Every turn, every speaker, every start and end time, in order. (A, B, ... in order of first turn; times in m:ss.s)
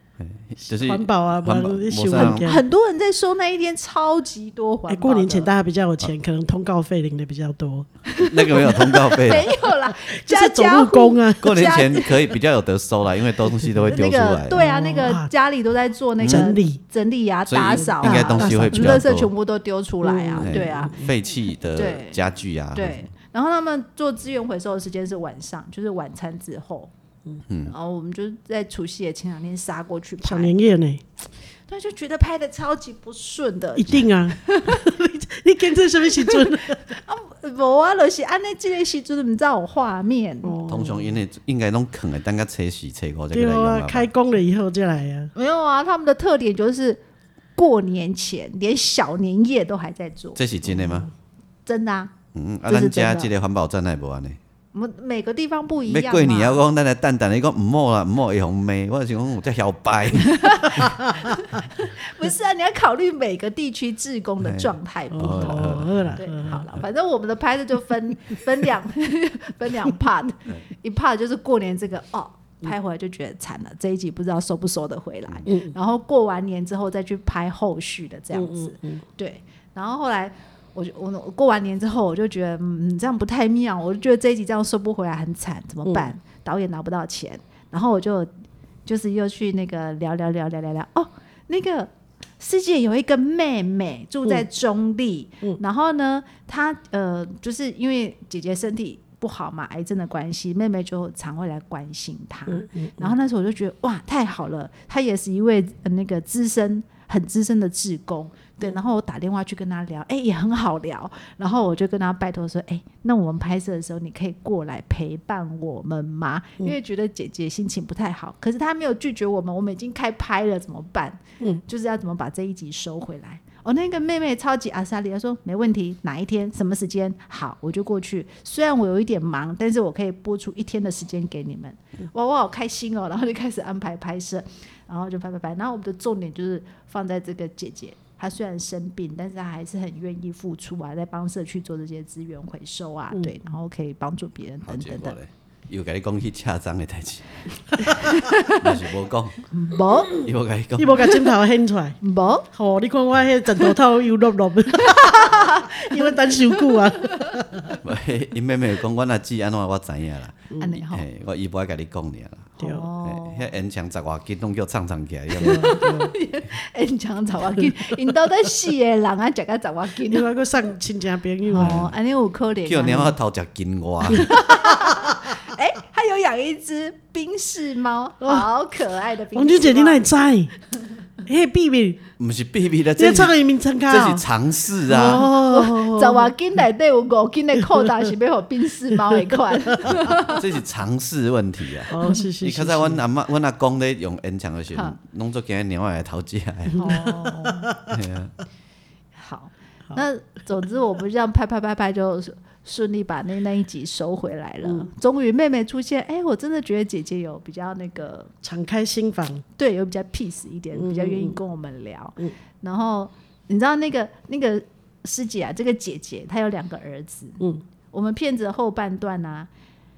0:00.2-0:02.4 A
0:00.6-0:02.6 B
0:02.2-0:05.5 C
0:04.9-0:07.9 B
0:08.1-0:12.2 C
0:08.2-0:09.5 A
0:10.1-0:11.6 B
0:11.4-0:14.6 A
0:13.6-0:13.9 B
0:13.9-0:21.0 C
0:14.5-0:15.3 B
0:16.2-0:16.5 A
0:16.2-0:16.8 B
0:17.5-0:19.3 A
0:17.7-0:19.1 B
0:20.0-0:21.1 B
0:20.4-0:23.1 A
0:21.7-0:22.2 C
0:22.7-0:26.9 C
0:27.6-0:30.5 C
0:30.2-0:31.0 B
0:31.7-0:34.8 C
0:33.8-0:36.9 B
0:36.2-0:40.6 C
0:40.4-0:41.1 B
0:40.7-0:44.1 A
0:43.3-0:45.3 B
0:45.3-0:47.0 C
0:47.6-0:50.4 C
0:50.4-0:51.1 A
0:50.8-0:51.0 B
0:51.6-0:52.1 C
0:52.3-0:54.4 A
0:52.7-0:53.3 C
0:54.7-0:56.6 C
0:55.9-1:00.8 A
1:00.2-1:28.3 C
1:04.4-1:06.2 A
1:05.1-1:06.6 B
1:15.4-1:15.7 B
1:18.3-1:19.0 B
1:28.8-2:25.2 C
1:42.5-1:43.1 B
2:24.7-2:27.2 A
2:28.1-2:28.7 C
2:28.4-2:29.4 A
2:29.5-2:30.2 C
2:30.2-2:31.2 A
2:30.8-2:32.0 B
2:32.0-2:32.5 C
2:32.5-2:37.8 B
2:34.8-2:37.4 C
2:37.8-2:45.8 A
2:40.5-2:40.8 B
2:40.6-2:41.0 C
2:42.6-2:42.8 B
2:42.6-2:43.5 C
2:45.4-2:46.1 B
2:45.4-2:50.3 C
2:50.1-2:51.8 B
2:51.5-2:53.1 C
2:51.6-2:51.9 A
2:52.6-2:54.4 A
2:54.1-3:00.0 C
2:59.3-3:00.5 B
3:01.2-3:02.0 B
3:02.2-3:03.4 A
3:03.0-3:04.2 B
3:03.9-3:05.3 A
3:04.9-3:06.3 B
3:04.9-3:10.4 C
3:09.1-3:10.1 B
3:09.9-3:16.9 A
3:11.9-3:13.0 B
3:16.8-3:17.7 C
3:16.8-3:18.0 B
3:17.9-3:18.3 A
3:19.2-3:28.3 C
3:28.4-3:29.4 B
3:29.6-3:39.5 C
3:30.7-3:31.4 B